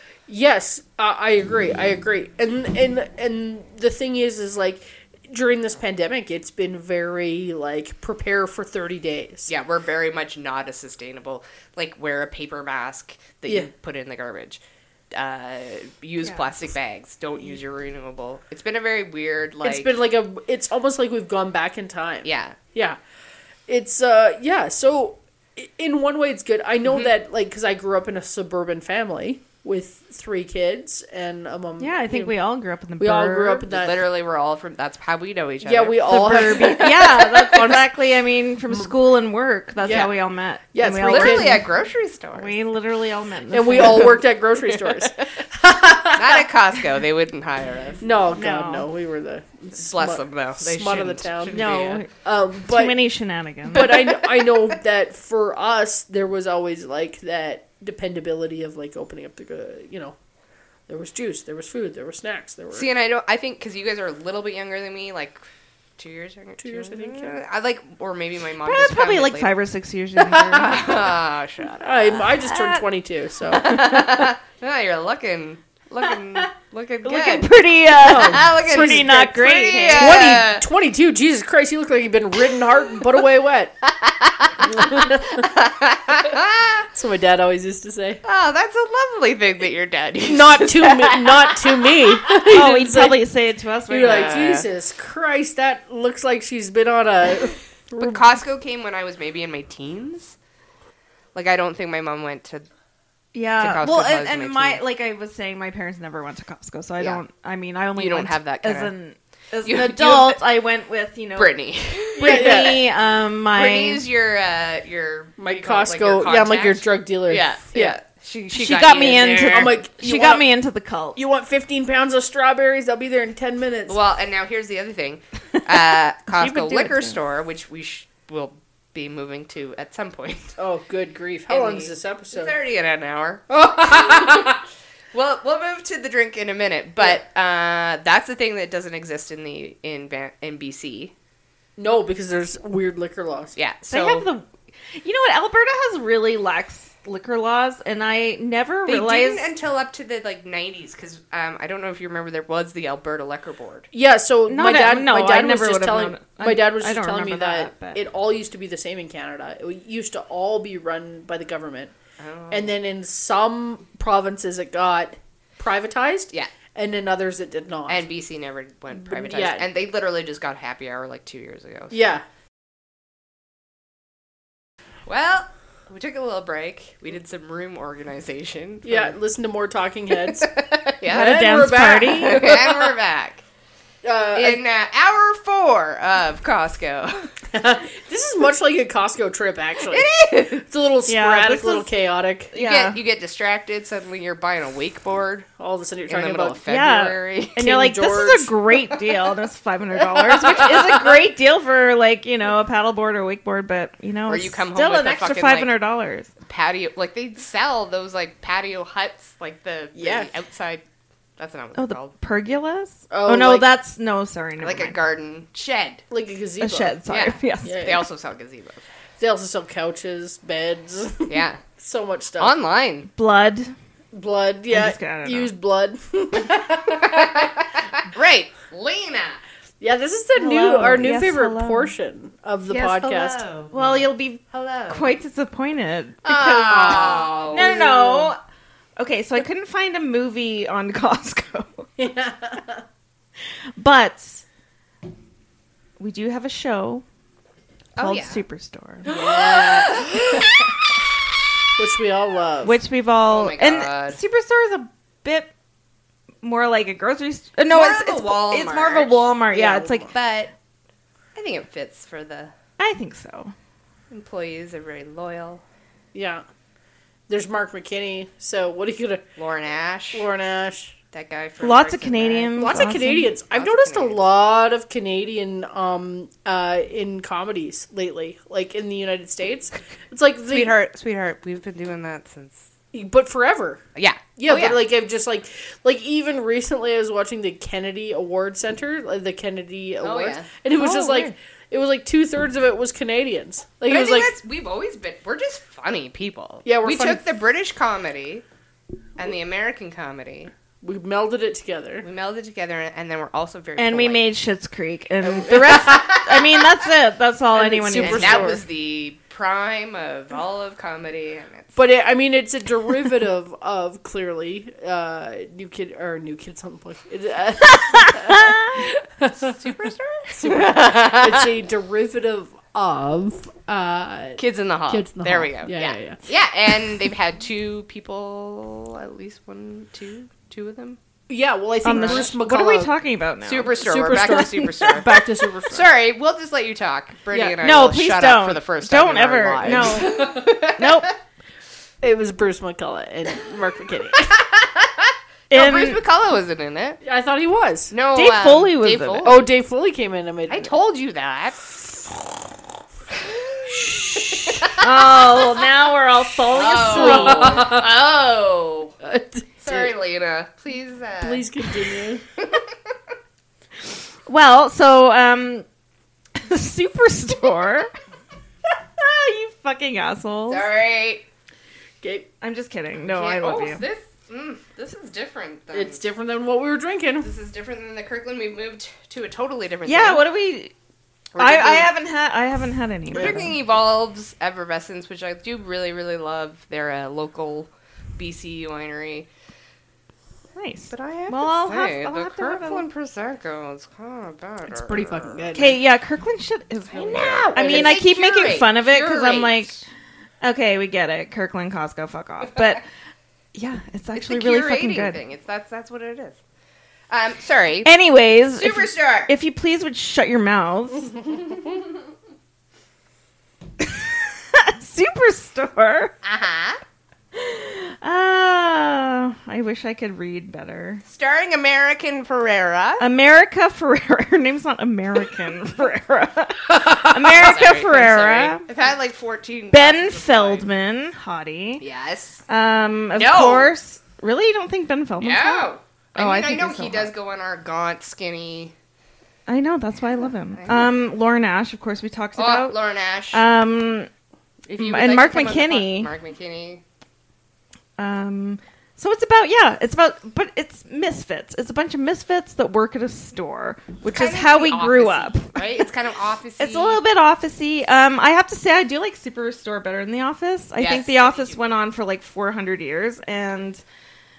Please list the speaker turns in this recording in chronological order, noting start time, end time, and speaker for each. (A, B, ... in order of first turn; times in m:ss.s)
0:00.3-0:09.5 A
0:09.5-0:14.6 B
0:15.1-0:19.9 B
0:19.6-0:23.0 A
0:22.2-0:22.6 B
0:23.7-0:32.4 A
0:26.8-0:27.1 B
0:31.8-0:33.6 C
0:33.0-0:34.1 A
0:33.7-0:36.9 B
0:35.6-0:37.9 A
0:36.0-0:41.6 C
0:39.8-0:40.1 A
0:40.7-0:41.7 A
0:41.0-0:42.6 B
0:42.3-0:44.2 C
0:43.5-0:46.8 A
0:44.6-0:45.3 B
0:46.1-0:48.0 B
0:48.0-0:53.0 A
0:48.3-0:48.9 C
0:49.8-0:52.0 B
0:51.5-0:52.1 C
0:52.6-0:54.1 C
0:53.7-1:00.2 A
0:53.8-0:54.6 B
1:00.9-1:02.9 A
1:02.7-1:05.4 B
1:06.0-1:09.5 B
1:06.6-1:07.4 A
1:08.6-1:11.0 C
1:10.3-1:12.6 B
1:11.8-1:14.0 A
1:12.5-1:12.8 C
1:13.5-1:20.6 B
1:17.0-1:20.2 C
1:18.0-1:23.7 A
1:23.8-1:26.9 B
1:24.6-1:25.5 A
1:26.9-1:28.2 A
1:28.2-1:32.4 B
1:30.2-1:33.2 A
1:32.4-1:34.6 C
1:33.9-1:38.2 A
1:34.0-1:34.5 B
1:38.0-1:40.4 B
1:41.3-1:42.6 B
1:43.3-1:54.0 C
1:43.6-1:44.8 B
1:48.0-1:48.9 B
1:49.6-1:50.4 B
1:51.4-1:52.8 B
1:52.2-1:52.8 A
1:53.5-1:59.8 B
1:55.4-1:58.0 A
1:58.5-2:01.2 C
1:59.0-2:00.5 A
2:01.2-2:04.0 A
2:03.9-2:10.5 B
2:06.3-2:07.2 C
2:10.6-2:12.5 A
2:11.5-2:14.6 B
2:13.5-2:14.6 A
2:15.1-2:21.1 B
2:21.8-2:23.6 A
2:23.6-2:24.3 B
2:23.9-2:29.5 C
2:28.9-2:33.9 B
2:33.9-2:41.9 A
2:34.5-2:38.0 C
2:42.2-2:42.7 B
2:42.5-2:48.0 A
2:47.9-2:52.0 B
2:49.0-2:49.6 A
2:51.9-2:52.2 A
2:55.0-2:59.1 B
2:58.8-3:00.5 A
3:00.2-3:01.4 B
3:01.0-3:03.0 A
3:01.0-3:02.4 C
3:02.2-3:03.4 B
3:04.0-3:04.6 A
3:04.3-3:07.3 B
3:07.5-3:12.5 A
3:09.8-3:10.6 B
3:11.1-3:11.9 C
3:12.5-3:13.0 C
3:12.5-3:15.5 B
3:15.6-3:16.6 A
3:16.1-3:17.6 B
3:16.7-3:26.3 C
3:17.6-3:18.5 A
3:20.0-3:20.9 A
3:20.6-3:20.9 B
3:24.3-3:25.7 B
3:26.4-3:30.8 B
3:29.9-3:30.3 A
3:31.4-3:32.1 B
3:31.7-3:35.0 C
3:33.1-3:33.7 A
3:34.6-3:36.0 B
3:36.1-3:37.0 A
3:36.6-3:37.9 C
3:37.1-3:38.8 B
3:37.6-3:38.0 A
3:39.2-3:42.5 A
3:41.3-3:41.6 B
3:42.4-3:43.1 B
3:43.2-3:43.7 C
3:44.1-3:47.6 A
3:44.7-3:45.5 C
3:47.0-3:49.4 B
3:49.8-3:53.4 A
3:50.4-3:51.9 C
3:52.7-3:55.1 B
3:53.7-3:58.4 C
3:56.2-3:57.8 B
3:56.7-3:58.3 A
3:59.0-4:01.9 C
4:02.0-4:02.8 A
4:03.8-4:04.4 C
4:06.0-4:07.0 C
4:08.0-4:08.4 B
4:08.0-4:09.1 C
4:09.0-4:10.7 B
4:09.0-4:10.6 A
4:11.8-4:12.8 A
4:12.6-4:15.5 C
4:13.2-4:14.2 B
4:16.4-4:20.1 C
4:17.7-4:19.3 B
4:19.5-4:20.1 A
4:20.1-4:20.5 B
4:21.3-4:22.5 B
4:22.8-4:23.5 C
4:24.1-4:25.6 B
4:26.1-4:26.4 A
4:27.3-4:29.2 A
4:29.4-4:30.3 B
4:30.1-4:31.0 A
4:31.1-4:32.7 B
4:31.6-4:33.3 C
4:32.5-4:40.7 A
4:33.5-4:34.2 B
4:40.5-4:42.7 B
4:42.9-4:43.8 A
4:44.0-4:44.8 B
4:44.4-4:54.3 A
4:50.0-4:50.5 B
4:50.8-4:51.3 C
4:53.9-4:58.4 B
4:56.6-4:57.2 A
4:59.2-5:00.5 B
5:00.8-5:02.0 A
5:02.0-5:04.3 B
5:03.8-5:08.6 C
5:05.2-5:06.2 A
5:05.7-5:06.5 B
5:07.5-5:08.6 A
5:08.0-5:11.8 B
5:11.8-5:19.6 A
5:19.4-5:21.5 B
5:20.3-5:26.2 A
5:24.4-5:31.0 B
5:31.3-5:32.9 A
5:31.8-5:35.2 C
5:31.9-5:32.3 B
5:33.4-5:41.0 B
5:33.7-5:35.9 A
5:37.3-5:37.6 A
5:37.6-5:41.1 C
5:39.6-5:40.5 A
5:42.0-5:44.3 A
5:44.2-5:47.0 B
5:45.5-5:46.0 C
5:47.0-5:47.9 A
5:47.9-5:49.5 B
5:48.1-5:49.4 C
5:49.2-5:50.7 A
5:50.5-5:51.8 B
5:53.4-5:55.6 B
5:53.6-5:54.7 A
5:54.8-5:57.7 C
5:56.5-5:58.9 B
5:56.6-5:57.9 A
5:59.0-5:59.9 A
5:59.6-6:01.6 B
6:01.2-6:02.2 A
6:02.4-6:02.7 B
6:04.2-6:05.6 C
6:06.3-6:07.9 C
6:09.0-6:10.7 C
6:10.5-6:11.2 B
6:12.0-6:12.3 A
6:12.4-6:13.8 C
6:13.0-6:16.0 B
6:15.7-6:17.3 A
6:17.2-6:20.2 B
6:19.8-6:20.7 C
6:21.3-6:21.9 B
6:21.4-6:23.5 C
6:23.1-6:29.3 B
6:23.1-6:23.5 A
6:30.5-6:32.8 C
6:30.9-6:35.5 B
6:34.7-6:35.8 A
6:35.5-6:39.8 C
6:36.9-6:39.8 B
6:37.2-6:38.0 A
6:40.4-6:42.8 C
6:43.5-6:45.2 C
6:44.1-6:46.4 B
6:47.1-6:47.9 B
6:47.8-6:51.2 C
6:48.6-6:49.3 B
6:53.8-6:56.1 C
6:56.2-6:56.8 B
6:57.3-7:01.0 C
7:01.1-7:03.0 B
7:03.0-7:08.7 C
7:07.0-7:10.7 B
7:09.7-7:11.8 C
7:11.8-7:12.4 B
7:12.5-7:17.1 C
7:13.2-7:13.7 B
7:15.2-7:18.7 B
7:19.5-7:22.8 C
7:20.6-7:20.8 B
7:22.4-7:23.4 B
7:23.3-7:24.1 C
7:24.7-7:26.8 B
7:24.8-7:26.1 C
7:28.0-7:35.9 C
7:34.1-7:37.0 B
7:36.6-7:43.8 C
7:40.8-7:41.6 B